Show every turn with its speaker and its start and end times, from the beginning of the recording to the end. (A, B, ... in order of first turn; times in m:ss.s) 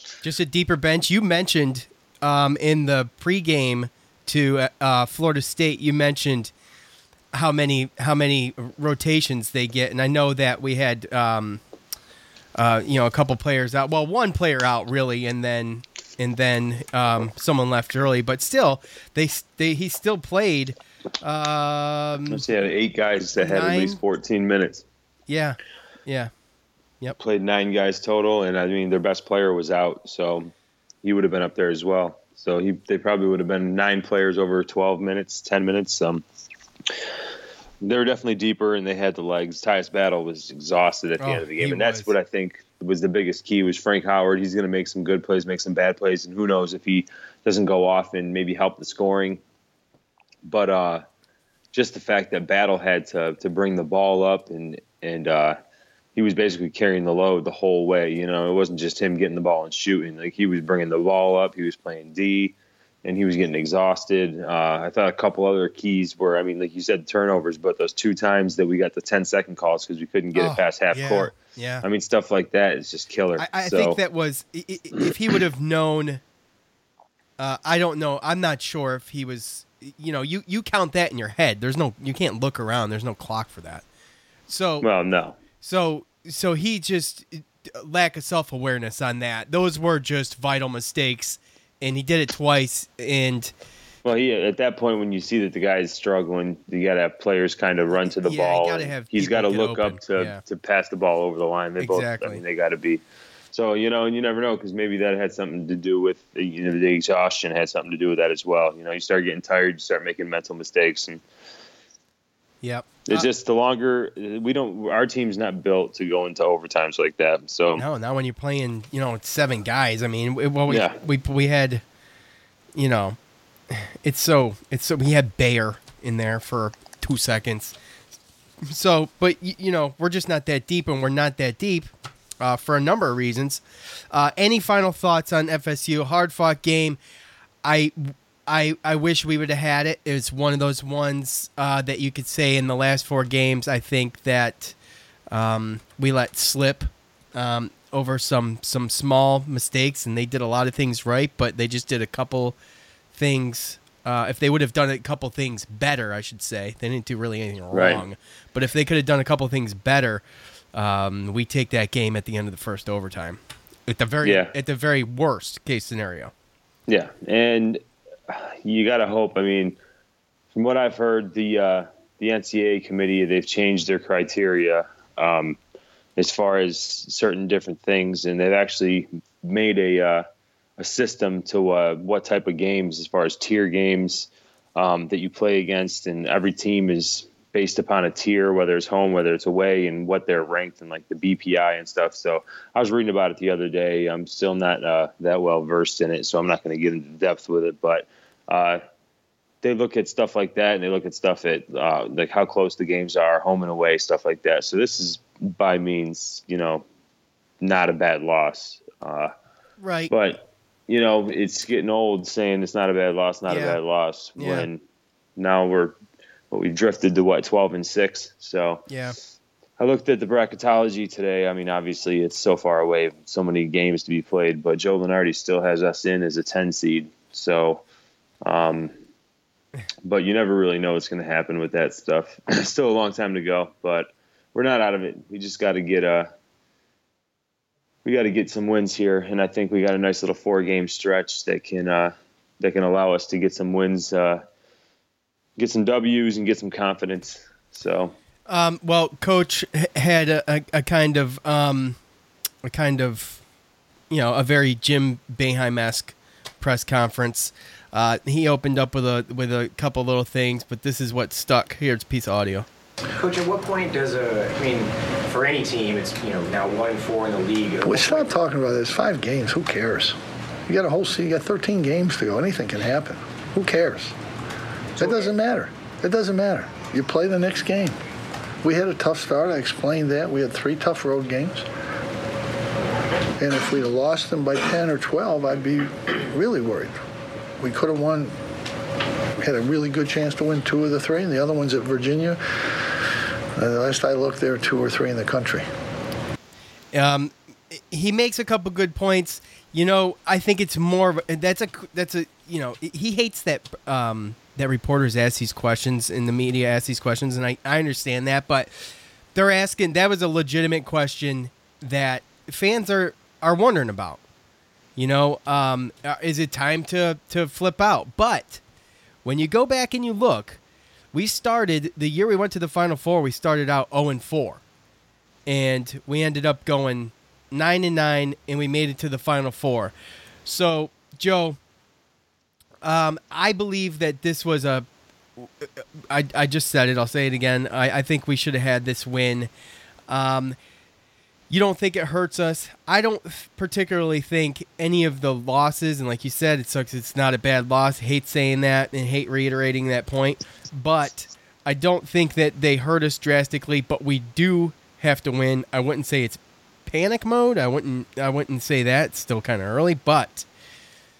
0:00.2-0:06.5 A
0:07.3-0:11.6 A
0:12.6-0:22.4 A
0:22.3-0:24.8 B
0:23.4-0:24.0 A
0:25.3-0:26.3 A
0:27.2-0:30.5 B
0:31.0-0:36.2 B
0:37.8-0:49.4 B
0:41.2-0:42.1 A
0:50.4-0:51.0 B
0:51.7-0:55.6 B
0:56.2-1:14.0 B
1:10.3-1:11.8 A
1:13.4-1:16.2 A
1:17.4-1:23.8 A
1:24.5-1:24.9 A
1:24.8-1:25.4 B
1:25.6-1:33.5 A
1:34.0-1:51.2 B
1:38.0-1:40.4 A
1:41.8-1:42.4 A
1:52.6-1:53.2 A
1:53.1-1:57.8 B
1:57.8-2:01.8 A
2:00.7-2:01.0 B
2:02.8-2:03.2 A
2:03.7-2:07.7 A
2:08.6-2:17.0 A
2:17.6-2:24.8 A
2:25.3-2:32.6 A
2:33.1-2:40.2 A
2:37.7-2:38.0 B
2:40.7-2:46.3 A
2:44.2-2:44.5 B
2:46.9-2:49.8 B
2:50.5-2:55.6 B
2:56.2-3:00.2 B
3:00.8-3:18.8 B
3:19.6-3:26.8 B
3:27.6-3:29.3 B
3:29.8-3:30.1 A
3:30.1-3:34.8 B
3:33.5-3:33.8 A
3:34.4-3:34.7 A
3:35.4-3:36.0 B
3:36.5-3:38.8 B
3:38.9-3:39.1 A
3:39.8-3:47.8 B
3:48.4-3:48.9 B
3:50.0-3:56.3 B
3:58.0-4:04.4 B
4:05.6-4:08.2 B
4:08.5-4:12.0 A
4:12.6-4:13.4 A
4:14.1-4:22.6 A
4:23.1-4:28.3 C
4:27.8-4:34.1 D
4:35.0-4:38.0 D
4:35.0-4:35.3 C
4:38.6-4:41.6 D
4:43.4-4:47.0 D
4:47.6-4:48.3 D
4:49.4-4:52.8 D
4:53.6-4:55.7 D
4:56.9-5:08.7 A
5:09.3-5:14.2 A
5:15.0-5:18.6 A
5:19.2-5:20.6 A
5:21.1-5:24.6 A
5:25.5-5:29.9 A
5:30.4-5:31.6 A
5:32.8-5:34.8 A
5:35.4-5:39.5 A
5:40.1-5:40.6 A
5:41.5-6:00.5 A